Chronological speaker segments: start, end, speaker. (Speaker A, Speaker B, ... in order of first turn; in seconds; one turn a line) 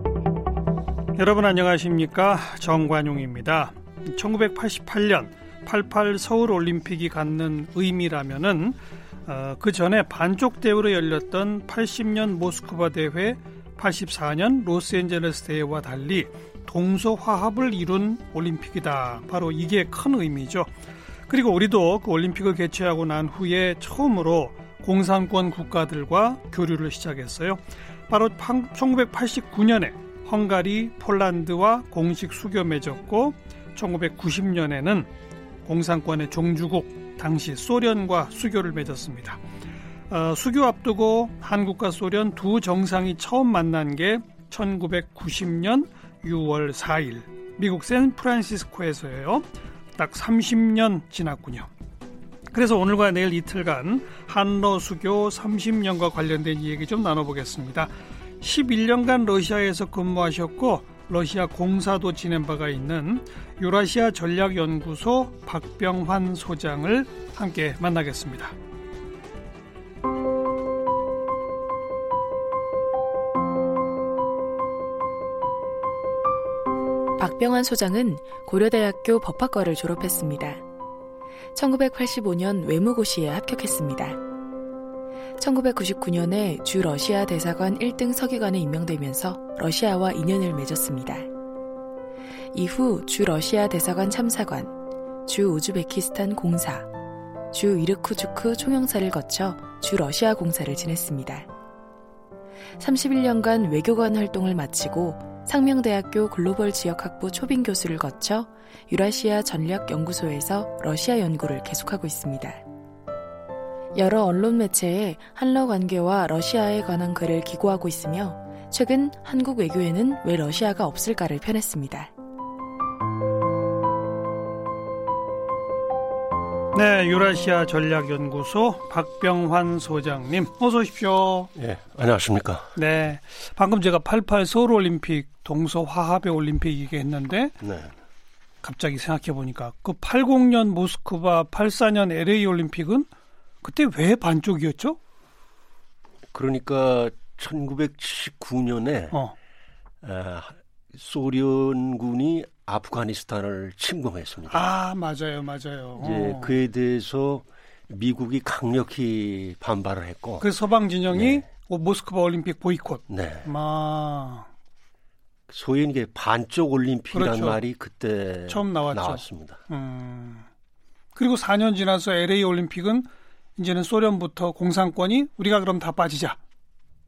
Speaker A: 1.2-20.7
Speaker A: 21.3-35.1
Speaker A: 35.7-39.4
Speaker A: 40.1-51.7
Speaker A: 52.5-68.6
Speaker B: 77.2-80.6
Speaker B: 81.5-84.2
Speaker B: 85.4-91.3
Speaker B: 92.5-94.7
Speaker B: 95.3-96.9
Speaker B: 97.5-101.5
Speaker B: 102.8-112.6
Speaker B: 114.0-122.1
Speaker A: 126.7-131.5
Speaker C: 131.6-132.7
Speaker A: 132.8-137.6
Speaker C: 137.6-137.9
Speaker A: 138.6-143.1
Speaker A: 143.6-145.0
Speaker C: 146.3-149.2
Speaker C: 150.0-154.7
Speaker A: 154.5-156.6
Speaker C: 156.0-160.5
Speaker A: 160.4-164.5
Speaker C: 161.1-161.4
Speaker C: 163.1-163.5
Speaker C: 165.5-169.6
Speaker A: 167.1-167.6
Speaker A: 168.5-170.5
Speaker A: 171.2-176.4